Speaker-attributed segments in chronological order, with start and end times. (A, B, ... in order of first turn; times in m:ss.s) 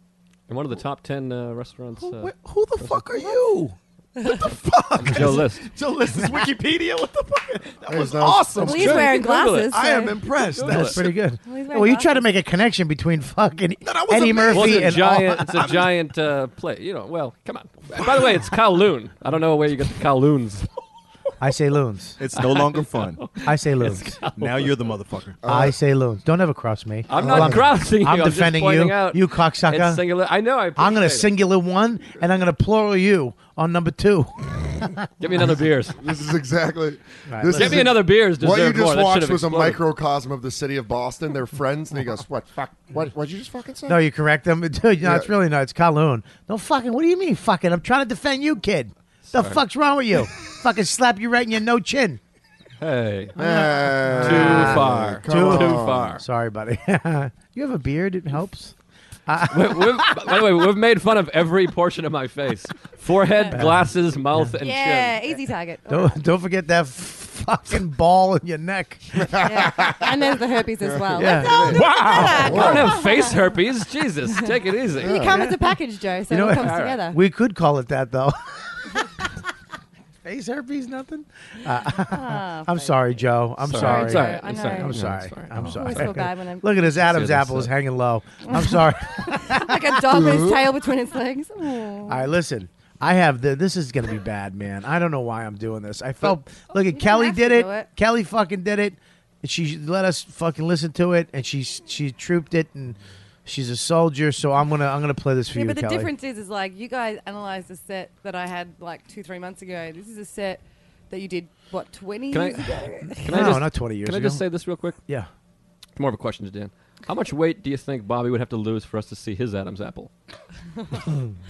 0:00.5-0:03.3 A
0:02.0-0:09.2 B
0:05.0-0:05.6 A
0:06.2-0:06.4 C
0:07.9-0:08.6 D
0:08.6-0:09.0 C
0:08.6-0:10.2 E
0:08.6-0:09.7 A
0:09.7-0:11.1 B
0:10.5-0:11.0 A
0:10.7-0:15.5 C
0:11.4-0:12.2 E
0:13.8-0:15.9 B
0:14.5-0:20.7 A
0:18.0-0:18.5 B
0:21.4-0:22.2 C
0:22.2-0:23.2 B
0:22.4-0:24.7 A
0:23.4-0:24.2 C
0:24.3-0:25.4 B
0:25.4-0:25.7 D
0:25.4-0:30.0 C
0:27.1-0:31.3 A
0:27.1-0:27.7 D
0:30.8-0:34.9 C
0:35.2-0:36.0 A
0:36.0-0:44.0 D
0:37.3-0:37.9 C
0:37.5-0:39.8 A
0:43.9-0:52.2 C
0:45.0-0:45.3 D
0:49.3-0:49.6 A
0:52.8-0:53.3 A
0:53.4-0:56.2 D
0:53.4-0:58.7 C
0:54.2-0:56.2 A
0:59.3-1:00.4 C
0:59.5-1:05.3 A
1:03.5-1:04.5 C
1:04.6-1:06.2 E
1:05.9-1:09.5 C
1:09.4-1:10.1 D
1:09.4-1:13.4 E
1:11.1-1:12.8 C
1:11.2-1:13.0 D
1:12.0-1:12.4 B
1:12.1-1:15.2 A
1:15.0-1:17.2 E
1:15.0-1:15.3 D
1:15.1-1:15.7 C
1:16.3-1:19.2 C
1:16.5-1:17.0 A
1:20.2-1:30.0 C
1:22.1-1:22.9 E
1:23.6-1:26.1 A
1:23.7-1:24.9 E
1:25.6-1:26.9 E
1:27.0-1:27.7 A
1:28.4-1:32.2 E
1:30.1-1:30.6 D
1:32.1-1:46.1 C
1:36.9-1:37.9 E
1:45.5-1:53.2 E
1:52.3-1:55.0 A
1:53.2-1:54.4 C
1:56.0-2:00.1 A